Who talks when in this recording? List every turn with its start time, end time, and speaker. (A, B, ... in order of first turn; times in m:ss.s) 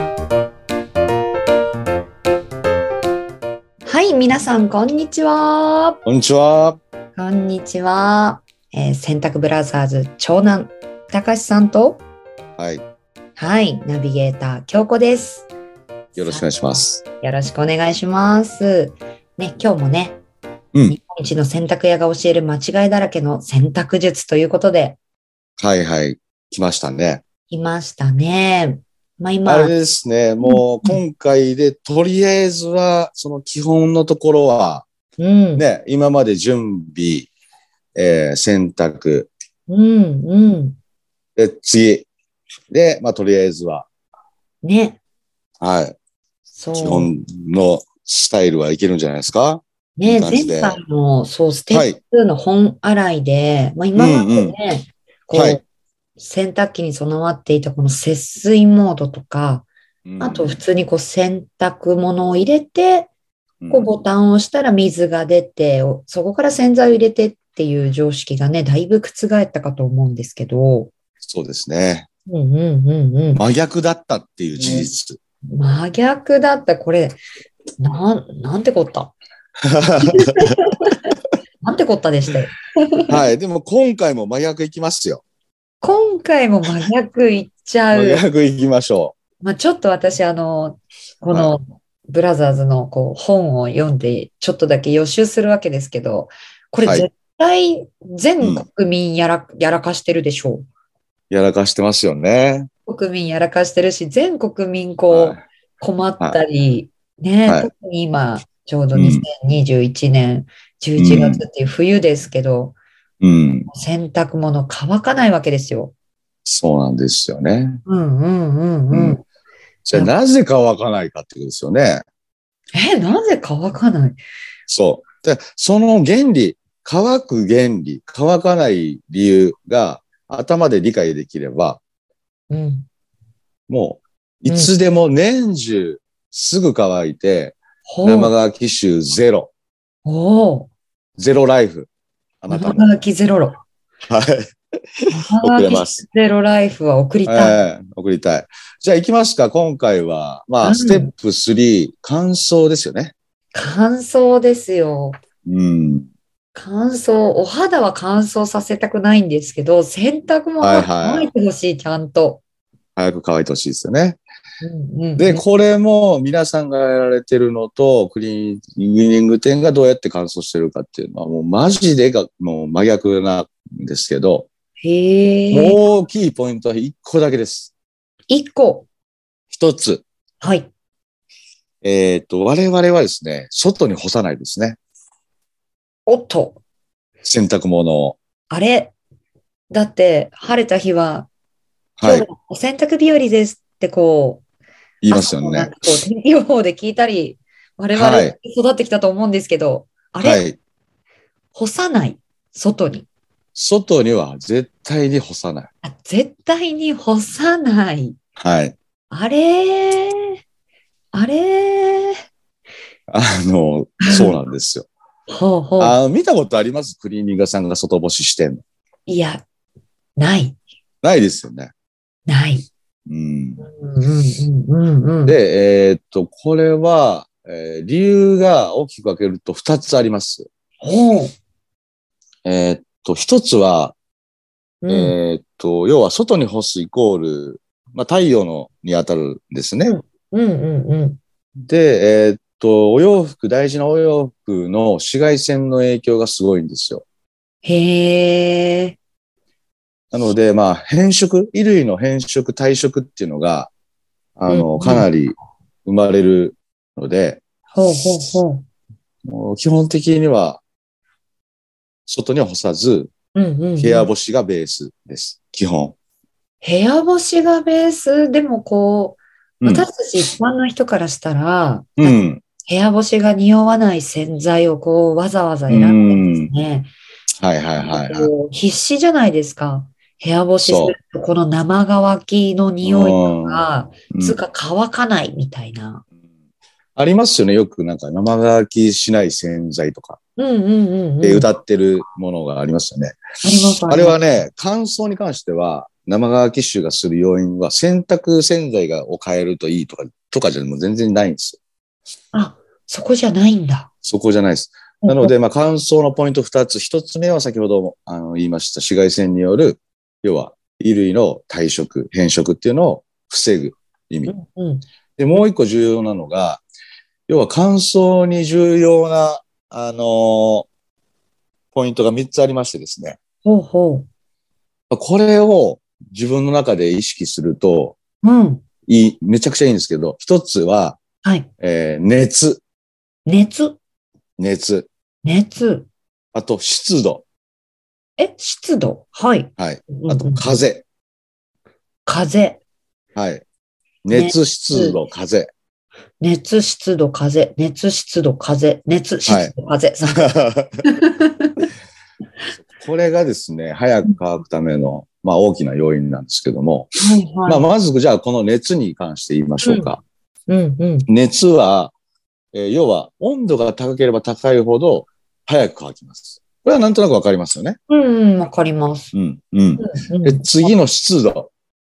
0:03.8-0:06.0 A
0:06.0-0:06.8 B
0:07.2-0:12.0 A
0:12.6-0:12.8 B
0:13.4-0:15.5 A
0:16.2-0:17.0 B
0:16.2-0:20.2 A
0:20.9-0:25.0 A
0:25.6-0:27.2 B
0:27.5-0:29.7 A
0:29.4-0:34.8 B
0:30.4-0:31.0 A
0:35.2-0:35.6 A
0:35.6-0:37.3 B
0:38.0-0:39.3 B
0:39.7-0:40.8 A
0:41.4-0:42.1 B
0:42.7-0:43.9 B
0:44.6-0:45.0 A
0:45.6-0:46.0 B
0:46.5-0:47.1 A
0:46.8-0:50.8 B
0:50.0-0:55.6 A
0:51.7-0:52.0 B
0:53.9-0:54.6 B
0:55.3-0:55.6 B
0:56.2-1:03.1 A
1:00.0-1:00.6 B
1:03.6-1:03.9 B
1:03.7-1:10.9 A
1:11.2-1:12.1 B
1:12.3-1:13.4 A
1:13.4-1:15.2 B
1:15.5-1:17.2 A
1:17.8-1:19.2 A
1:19.6-1:20.7 B
1:20.0-1:21.0 A
1:21.6-1:23.1 A
1:23.1-1:25.2 B
1:25.8-1:28.2 A
1:27.9-1:29.2 B
1:29.4-1:40.6 A
1:36.8-1:37.1 B
1:38.4-1:38.6 B
1:41.3-1:42.7 B
1:42.8-1:52.8 A
1:45.1-1:45.4 B
1:48.9-1:49.3 B
1:51.0-1:51.4 B
1:53.2-1:53.7 B
1:53.7-1:55.9 A
1:56.4-1:57.8 B
1:57.8-1:59.2 A
1:58.9-1:59.2 B
1:59.8-2:02.0 B
2:02.7-2:04.2 A
2:04.7-2:11.8 B
2:12.5-2:12.9 A
2:13.7-2:19.5 B
2:14.4-2:14.7 A
2:17.8-2:18.3 A
2:20.0-2:20.7 A
2:21.2-2:21.9 B
2:22.4-2:22.9 B
2:22.5-2:23.6 A
2:24.1-2:26.0 B
2:25.1-2:27.6 A
2:27.2-2:33.1 B
2:30.6-2:31.1 A
2:33.5-2:35.2 A
2:35.4-2:36.1 B
2:36.5-2:42.4 A
2:40.6-2:41.3 B
2:43.0-2:44.2 B
2:44.6-2:45.4 A
2:45.2-2:54.5 B
2:54.8-2:55.8 A
2:55.5-2:57.7 B
2:58.3-2:58.9 A
2:59.5-3:00.0 B
3:00.4-3:00.7 A
3:01.8-3:04.8 B
3:06.0-3:06.6 A
3:07.2-3:08.2 B
3:08.5-3:08.9 A
3:09.7-3:11.3 A
3:12.0-3:12.3 B
3:12.0-3:14.4 A
3:15.0-3:15.7 B
3:15.1-3:20.4 A
3:17.9-3:18.3 B
3:20.2-3:20.6 B
3:21.5-3:23.1 A
3:23.6-3:25.7 B
3:25.8-3:28.2 A
3:28.4-3:28.8 B
3:29.1-3:30.4 A
3:31.1-3:32.2 A
3:33.1-3:34.9 B
3:34.0-3:34.4 A
3:35.3-3:36.0 A
3:35.8-3:38.6 B
3:39.0-3:39.4 A
3:40.2-3:40.6 A
3:41.0-3:41.7 B
3:42.2-3:42.7 A
3:43.1-3:43.6 B
3:43.6-3:45.4 A
3:45.2-3:50.5 B
3:50.8-3:51.3 A
3:52.4-3:53.9 B
3:54.8-3:55.2 A
3:54.9-4:00.0 B
3:59.9-4:01.2 A
4:01.6-4:07.0 B
4:07.6-4:09.0 A
4:10.1-4:13.7 B
4:14.4-4:17.4 B
4:14.5-4:15.1 A
4:17.7-4:18.6 A
4:19.2-4:20.6 B
4:22.1-4:23.1 B
4:23.3-4:24.1 A
4:23.8-4:26.0 B
4:26.6-4:36.9 A
4:29.6-4:29.9 B
4:32.0-4:32.4 B
4:35.7-4:36.5 B
4:37.4-4:38.3 B
4:37.8-4:46.0 A
4:40.6-4:41.0 B
4:42.8-4:44.4 B
4:47.0-4:50.2 B
4:50.4-4:51.5 A
4:51.2-5:01.6 B
4:53.4-4:54.4 A
5:02.3-5:03.9 A
5:04.0-5:14.4 B
5:05.0-5:05.3 A
5:14.3-5:14.8 A
5:15.2-5:16.6 B
5:17.3-5:20.7 B
5:21.7-5:23.2 B
5:23.4-5:24.1 A
5:24.9-5:28.0 B
5:28.2-5:28.6 A
5:28.9-5:31.0 B
5:31.2-5:31.5 A
5:31.6-5:32.6 B
5:33.2-5:33.8 A
5:34.4-5:34.9 B
5:35.2-5:35.9 A
5:36.3-5:37.2 B
5:38.2-5:40.6 A
5:39.6-5:40.8 B
5:42.0-5:42.6 A
5:43.1-5:43.4 B
5:44.0-5:45.5 B
5:44.1-5:45.0 A
5:46.2-5:50.3 A
5:49.2-5:50.7 B
5:50.9-5:51.7 A
5:52.5-5:56.9 B
5:57.0-5:57.6 A
5:57.4-6:00.0 B
5:59.6-5:59.9 A
6:00.5-6:01.1 A
6:01.1-6:01.9 B
6:02.5-6:07.8 B
6:07.9-6:09.1 A
6:09.1-6:11.5 B
6:09.8-6:10.7 A